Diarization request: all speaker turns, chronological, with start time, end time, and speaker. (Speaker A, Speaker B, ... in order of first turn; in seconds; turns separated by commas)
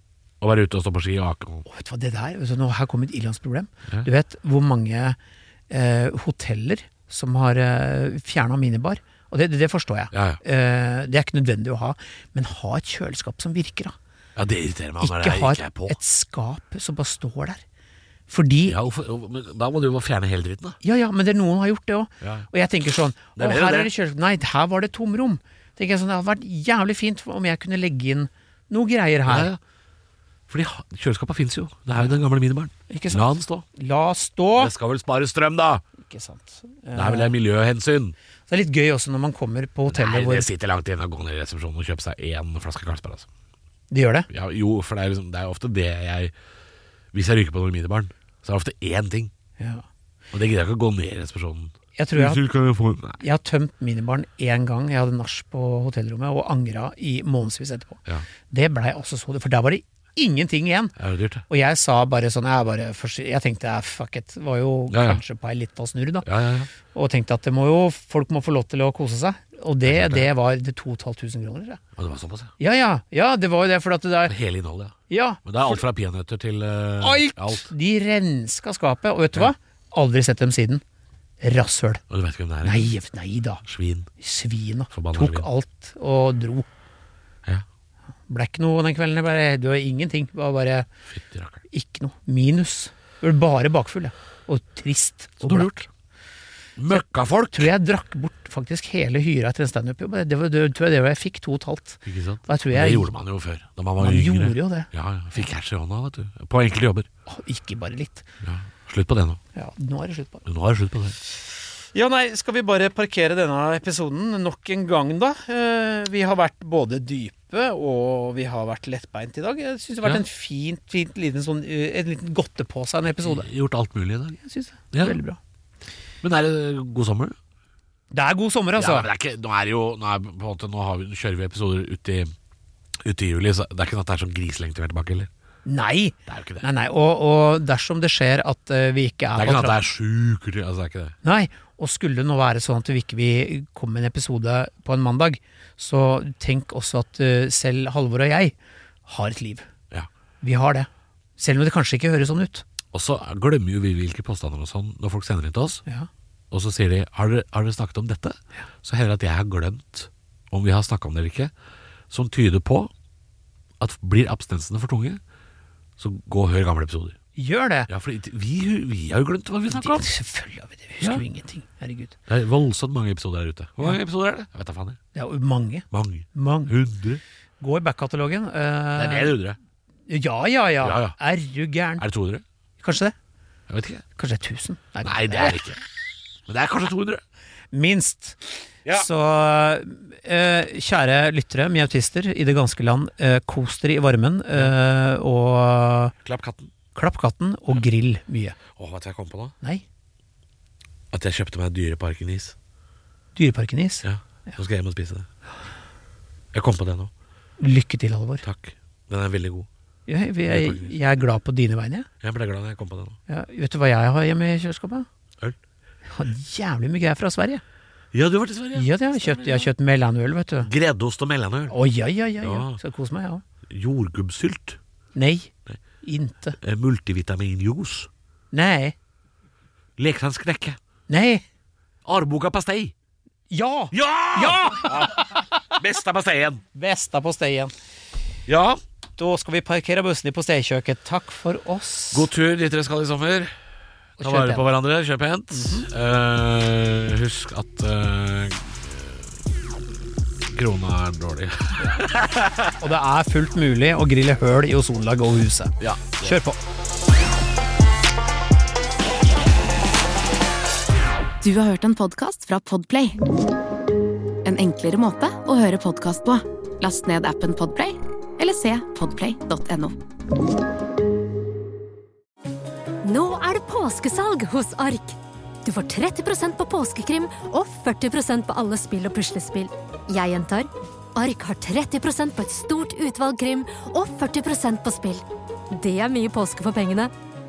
Speaker A: 0.4-1.6, Speaker B: 1.6-5.2, Speaker B: 5.7-14.0, Speaker A: 10.1-10.4, Speaker A: 14.3-16.0, Speaker B: 15.0-17.6, Speaker B: 18.3-18.8, Speaker A: 18.6-20.8, Speaker B: 20.8-29.5, Speaker A: 22.2-22.5, Speaker A: 23.4-23.9, Speaker A: 29.2-29.6, Speaker A: 30.5-33.6, Speaker B: 32.9-34.7, Speaker A: 34.5-35.8, Speaker B: 36.0-37.3, Speaker A: 36.9-38.1, Speaker B: 38.5-40.5, Speaker A: 39.9-43.3, Speaker B: 43.9-44.3, Speaker A: 44.3-46.3, Speaker A: 47.1-49.3, Speaker B: 49.6-49.8, Speaker A: 50.3-53.2, Speaker B: 52.0-52.4, Speaker B: 53.2-61.0, Speaker A: 61.0-61.4, Speaker B: 61.5-66.3, Speaker A: 64.9-65.2, Speaker A: 66.2-66.7, Speaker B: 66.9-71.8, Speaker A: 69.8-70.3, Speaker A: 72.0-72.5, Speaker B: 72.6-74.3, Speaker A: 74.2-77.7, Speaker B: 75.1-75.8, Speaker B: 77.0-80.8, Speaker B: 81.4-82.0, Speaker A: 82.1-82.9, Speaker B: 82.6-83.6, Speaker A: 83.6-84.1, Speaker B: 84.2-86.7, Speaker A: 84.9-85.5, Speaker B: 88.3-90.9, Speaker A: 91.1-91.6, Speaker B: 91.7-95.9, Speaker A: 95.4-95.8, Speaker A: 96.8-97.7, Speaker B: 96.9-103.1, Speaker A: 102.0-107.1, Speaker B: 104.0-105.4, Speaker B: 107.3-108.3, Speaker A: 108.4-109.4, Speaker B: 109.5-110.4, Speaker A: 110.5-111.2, Speaker B: 111.9-123.5, Speaker A: 123.2-124.4, Speaker B: 124.4-125.4, Speaker A: 124.9-125.2, Speaker A: 126.2-127.4, Speaker B: 128.1-129.1, Speaker A: 128.8-132.3, Speaker A: 133.0-135.3, Speaker B: 135.6-139.8, Speaker A: 136.3-136.7, Speaker A: 139.4-141.2, Speaker B: 141.2-148.5, Speaker B: 149.1-149.7, Speaker B: 150.4-152.6, Speaker A: 152.9-155.8, Speaker A: 156.5-161.5, Speaker A: 162.1-162.9, Speaker A: 163.8-165.2, Speaker A: 166.0-167.2, Speaker B: 167.3-167.9, Speaker A: 167.9-170.1, Speaker B: 169.7-172.2, Speaker A: 171.0-171.2, Speaker A: 172.3-175.0, Speaker B: 175.1-176.8, Speaker A: 175.9-177.2, Speaker B: 177.6-179.4, Speaker A: 178.9-179.6, Speaker B: 180.1-182.0, Speaker A: 180.8-181.2, Speaker A: 182.0-182.4, Speaker B: 182.8-183.1, Speaker A: 183.7-184.0, Speaker B: 184.2-185.6, Speaker A: 185.0-185.8, Speaker A: 186.5-187.2, Speaker B: 187.7-188.4, Speaker B: 188.9-196.1, Speaker A: 196.2-196.7, Speaker B: 196.9-198.6, Speaker A: 198.7-199.6, Speaker A: 201.1-202.5, Speaker B: 203.3-204.6, Speaker A: 204.0-205.3, Speaker A: 206.5-207.1, Speaker B: 207.6-208.4, Speaker A: 208.4-209.7, Speaker B: 210.1-212.1, Speaker A: 210.4-210.9, Speaker A: 212.2-213.2, Speaker B: 213.3-215.1, Speaker B: 216.1-217.6, Speaker A: 218.1-219.7, Speaker B: 218.7-220.7, Speaker A: 220.6-221.7, Speaker B: 221.7-223.4, Speaker A: 222.4-222.8, Speaker A: 223.7-224.8, Speaker B: 225.1-226.6, Speaker A: 226.6-228.1, Speaker B: 228.5-228.9, Speaker A: 230.0-230.8, Speaker B: 231.1-231.4, Speaker A: 232.0-232.9, Speaker B: 233.5-235.6, Speaker A: 233.9-236.6, Speaker B: 236.7-237.7, Speaker A: 238.5-238.8, Speaker B: 239.2-242.3, Speaker A: 242.1-243.5, Speaker B: 244.2-244.6, Speaker A: 244.2-249.5, Speaker B: 245.5-245.9, Speaker A: 250.4-252.8, Speaker B: 252.8-256.6, Speaker A: 255.8-256.4, Speaker C: 261.4-263.2, Speaker C: 264.4-269.9, Speaker D: 273.0-287.1